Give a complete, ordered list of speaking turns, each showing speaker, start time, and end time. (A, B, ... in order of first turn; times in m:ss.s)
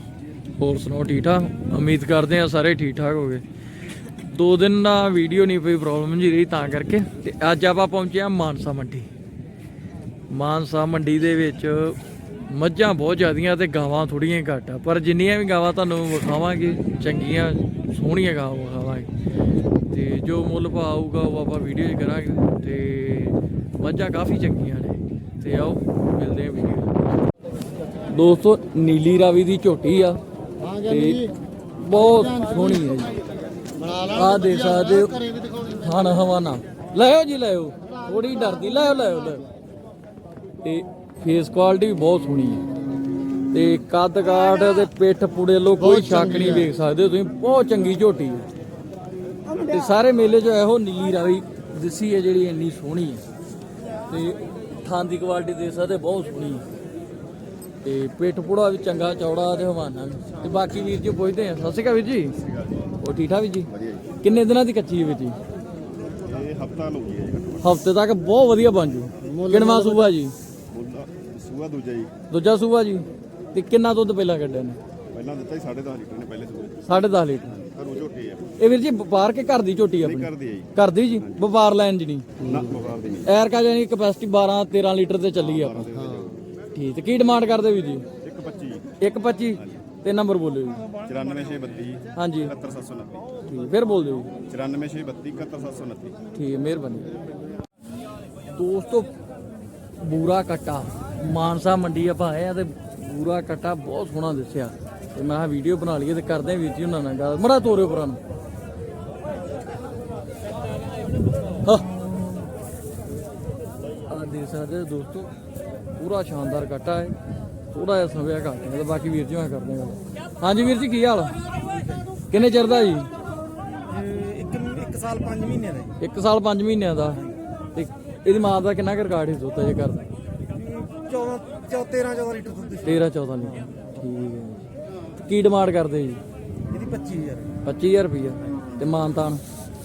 0:00.6-0:03.4 A
0:04.2-0:09.1 A
0:10.3-0:19.1 A
0:19.9-0:27.0 A
0:28.0-0:30.2 A
0:30.8-0:33.2 A
0:34.0-0:39.4 A
0:40.6-0:42.6 A
0:43.5-0:48.5 A
0:49.6-0:53.2 A
0:54.1-0:56.6 A
0:57.8-1:02.4 A
1:02.4-1:02.9 B
1:03.0-1:03.7 A
1:03.7-1:04.1 B
1:04.2-1:05.4 A
1:06.2-1:07.6 B
1:07.6-1:10.3 A
1:09.3-1:10.1 C
1:10.7-1:12.1 B
1:12.3-1:14.8 A
1:15.1-1:16.8 B
1:16.8-1:17.5 A
1:17.6-1:18.5 B
1:18.6-1:22.3 A
1:20.0-1:21.4 B
1:22.4-1:23.3 B
1:22.4-1:22.9 C
1:23.2-1:25.9 A
1:25.4-1:26.4 B
1:26.0-1:26.2 C
1:26.7-1:28.0 A
1:28.2-1:28.8 B
1:29.0-1:30.8 A
1:31.0-1:33.3 B
1:32.1-1:32.5 A
1:33.5-1:34.3 A
1:34.5-1:36.2 B
1:36.3-1:37.2 A
1:38.5-1:39.1 A
1:40.0-1:48.2 A
1:51.6-1:52.0 A
1:54.1-1:55.3 A
1:56.0-1:57.1 A
1:57.7-2:01.4 A
2:02.3-2:03.1 A
2:03.8-2:06.0 C
2:06.0-2:07.2 A
2:07.7-2:10.1 A
2:10.5-2:13.1 C
2:12.8-2:14.6 A
2:15.2-2:16.2 A
2:16.7-2:17.6 C
2:17.6-2:19.4 A